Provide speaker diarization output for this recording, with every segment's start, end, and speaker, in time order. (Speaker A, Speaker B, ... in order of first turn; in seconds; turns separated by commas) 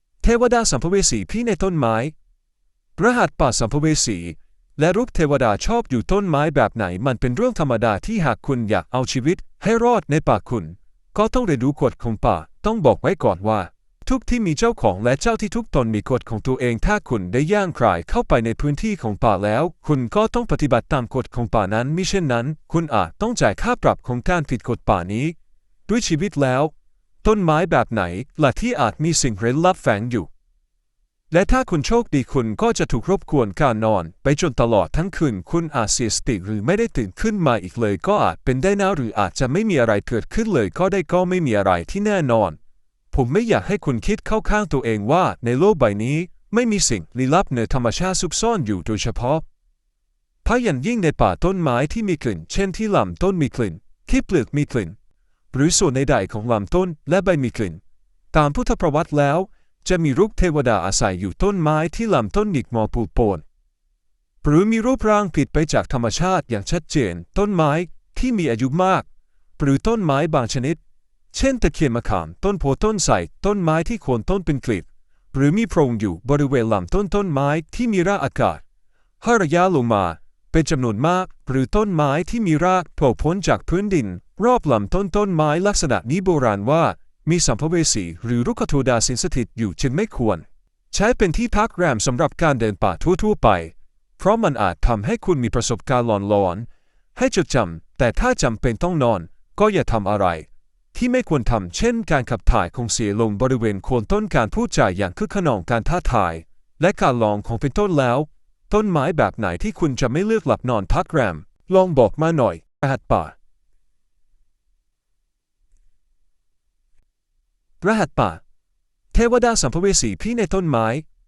Speaker A: 0.2-2.1, Speaker A: 3.0-25.4, Speaker A: 25.9-30.3, Speaker A: 31.3-42.6, Speaker A: 43.1-49.5, Speaker A: 50.4-55.0, Speaker A: 55.5-57.8, Speaker A: 58.3-63.4, Speaker A: 64.4-69.1, Speaker A: 69.6-70.8, Speaker A: 71.3-78.6, Speaker A: 79.2-113.3, Speaker A: 117.8-118.4, Speaker A: 119.1-121.0